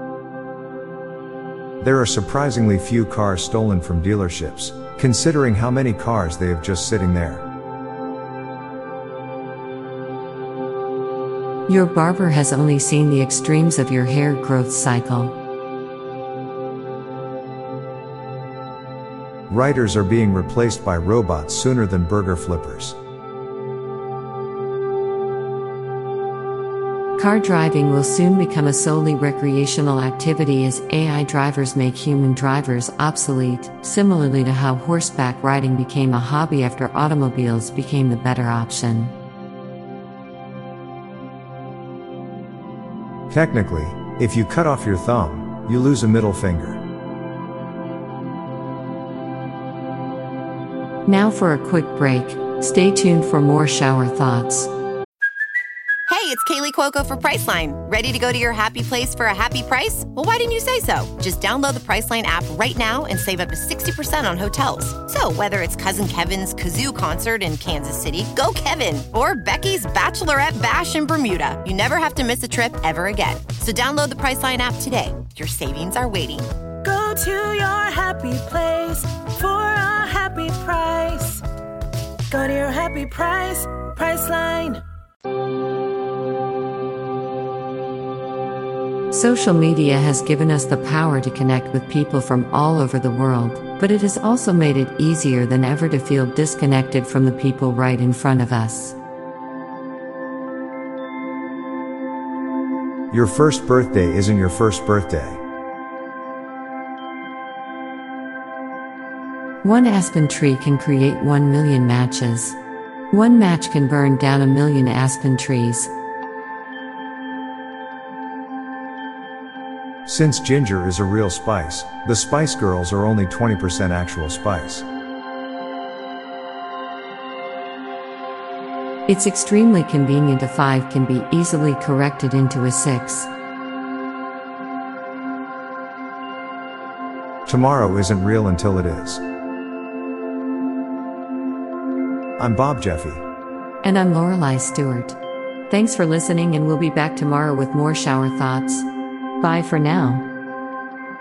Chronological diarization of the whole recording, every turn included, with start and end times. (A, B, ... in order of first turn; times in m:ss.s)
0:01.8-0:07.5 A
0:11.7-0:15.4 B
0:19.5-0:23.0 A
0:27.2-0:39.1 B
0:43.3-0:46.8 A
0:51.1-0:54.7 B
0:56.1-1:16.5 C
1:16.8-1:21.4 D
1:22.3-1:24.8 D
1:29.1-1:39.0 B
1:43.1-1:45.4 A
1:49.6-1:52.6 B
1:53.1-1:55.9 B
2:00.1-2:04.9 A
2:09.1-2:13.3 B
2:17.5-2:19.2 A
2:22.4-2:23.2 A
2:23.8-2:25.2 B
2:25.7-2:28.9 B
2:29.4-2:30.3 B